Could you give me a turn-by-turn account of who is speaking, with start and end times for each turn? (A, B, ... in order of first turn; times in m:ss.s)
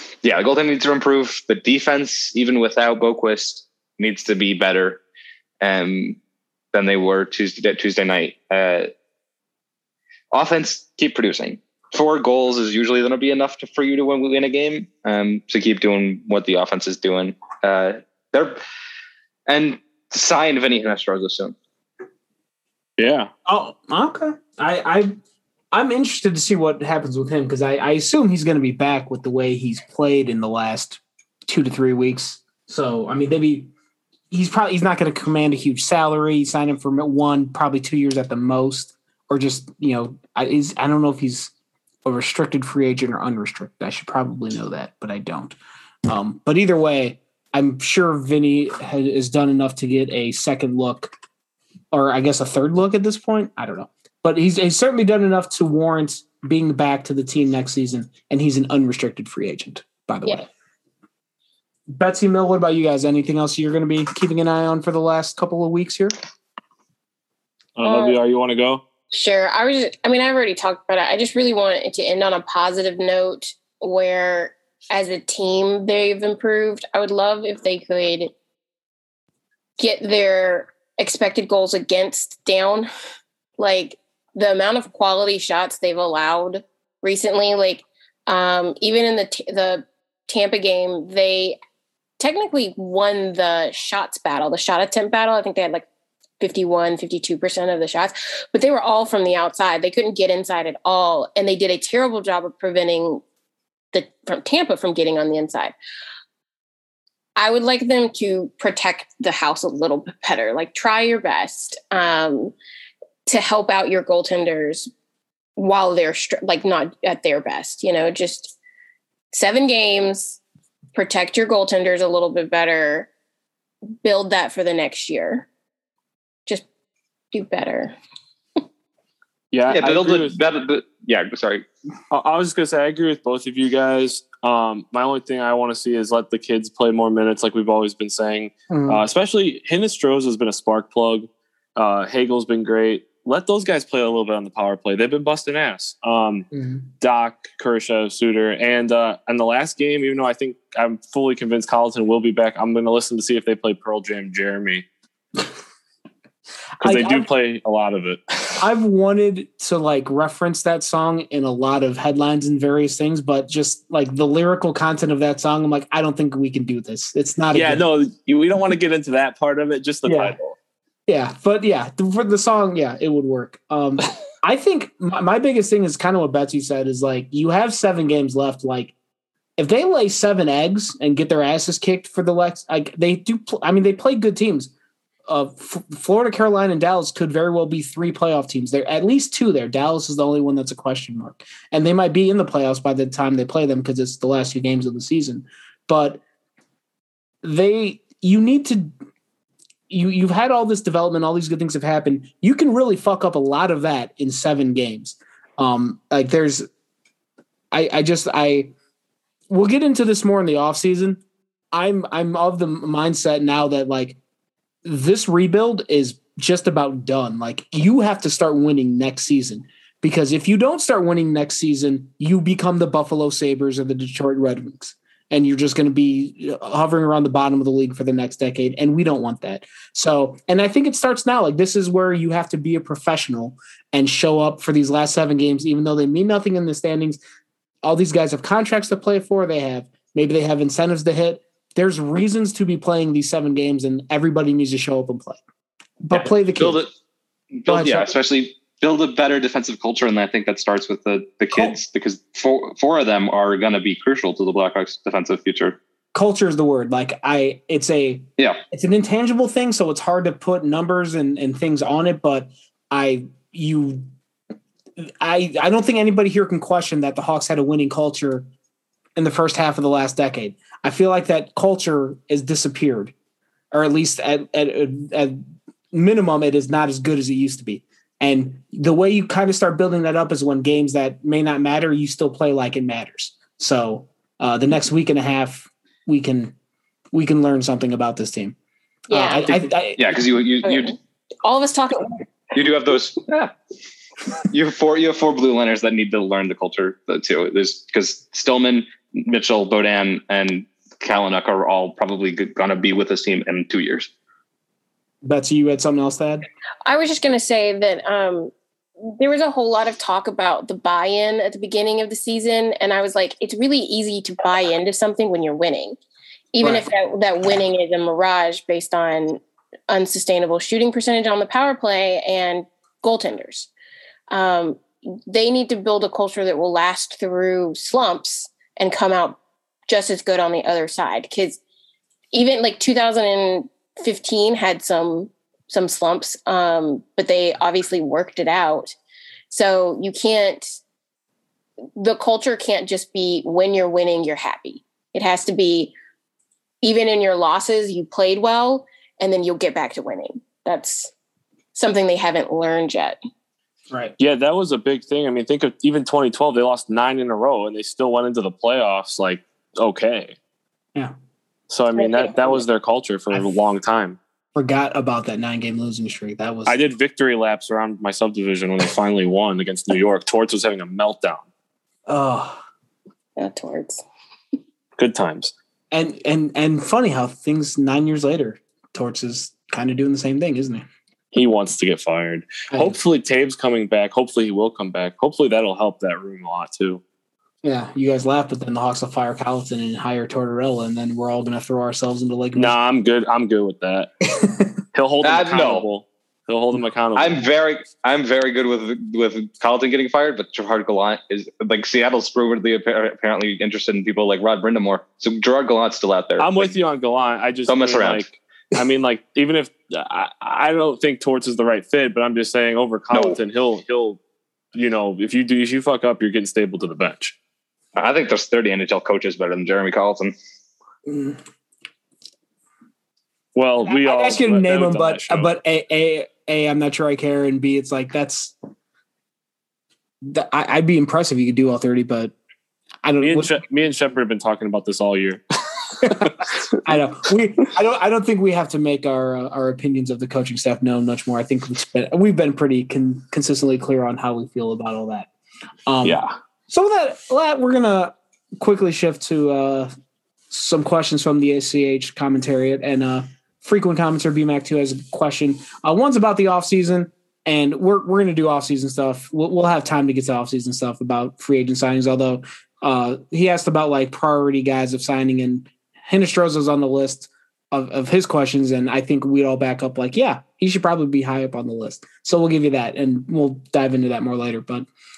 0:00.2-0:05.0 A
0:05.6-0:06.2 A
0:06.7-0:08.9 A
0:10.3-0:18.6 A
0:19.5-0:21.6 A
0:23.0-0:23.3 B
0:23.5-0:25.1 C
0:25.7-0:33.7 C
0:34.3-0:41.5 C
0:42.0-0:51.1 C
0:51.9-1:00.5 C
1:01.9-1:06.2 C
1:07.8-1:08.8 B
1:07.8-1:08.2 D
1:09.1-1:18.3 D
1:19.8-1:22.9 D
1:23.6-1:31.6 D
1:32.2-1:35.9 D
1:36.4-1:43.2 D
1:43.9-1:45.7 D
1:47.4-1:52.5 D
1:53.3-1:54.9 D
1:55.6-1:58.6 D
1:59.3-2:00.4 D
2:01.0-2:03.1 D
2:04.0-2:05.5 D
2:07.3-2:07.9 D
2:09.5-2:10.4 B
2:09.7-2:11.7 A
2:12.1-2:26.5 B
2:18.7-2:19.0 C
2:26.5-2:26.9 C
2:27.0-2:34.9 B
2:36.8-2:38.6 B
2:36.8-2:37.3 C
2:38.6-2:47.8 C
2:47.5-2:50.6 B
2:50.0-2:50.4 C
2:51.1-2:58.9 C
2:59.6-3:04.7 C
3:05.3-3:16.2 C
3:17.4-3:18.9 C
3:19.9-3:26.7 C
3:27.7-3:28.7 C
3:29.5-3:31.2 C
3:31.7-3:34.2 C
3:34.8-3:57.2 C
3:57.8-4:05.4 C
4:06.0-4:06.8 C
4:06.1-4:06.9 A
4:07.5-4:15.8 A
4:07.7-4:08.1 C
4:11.5-4:11.8 C
4:16.1-4:24.1 C
4:25.0-4:28.5 C
4:29.2-4:33.1 C
4:33.7-4:35.4 C
4:35.9-4:46.6 C
4:47.1-4:48.6 C
4:49.1-4:49.5 D
4:49.1-4:50.3 C
4:50.0-4:51.0 A
4:50.6-4:52.3 D
4:52.5-4:53.5 A
4:54.5-5:04.1 A
5:05.2-5:06.5 C
5:06.8-5:16.0 D
5:16.5-5:23.7 D
5:24.3-5:31.6 D
5:32.3-5:39.0 D
5:39.5-5:40.8 D
5:42.0-5:45.9 D
5:46.8-5:51.1 D
5:51.8-5:53.2 D
5:53.9-5:54.2 C
5:54.2-6:00.4 B
6:01.7-6:04.2 B
6:02.0-6:02.5 D
6:04.6-6:06.8 C
6:06.7-6:11.5 B
6:12.1-6:12.6 C
6:13.4-6:14.0 D
6:15.0-6:15.5 B
6:15.9-6:20.9 C
6:21.3-6:27.0 B
6:22.7-6:23.0 C
6:27.6-6:32.8 C
6:32.6-6:34.3 B
6:34.4-6:34.6 C
6:34.9-6:37.5 B
6:35.2-6:35.8 A
6:37.2-6:46.7 A
6:46.4-6:54.2 B
6:47.7-6:48.2 A
6:53.1-6:53.4 A
6:54.8-6:57.4 B
6:58.0-7:00.4 A
7:01.1-7:01.4 C
7:03.6-7:05.5 B
7:03.9-7:08.6 C
7:10.2-7:12.3 C
7:13.0-7:13.6 C
7:13.2-7:16.5 B
7:16.0-7:25.3 C
7:25.9-7:29.9 C
7:26.0-7:26.3 B
7:30.5-7:54.9 C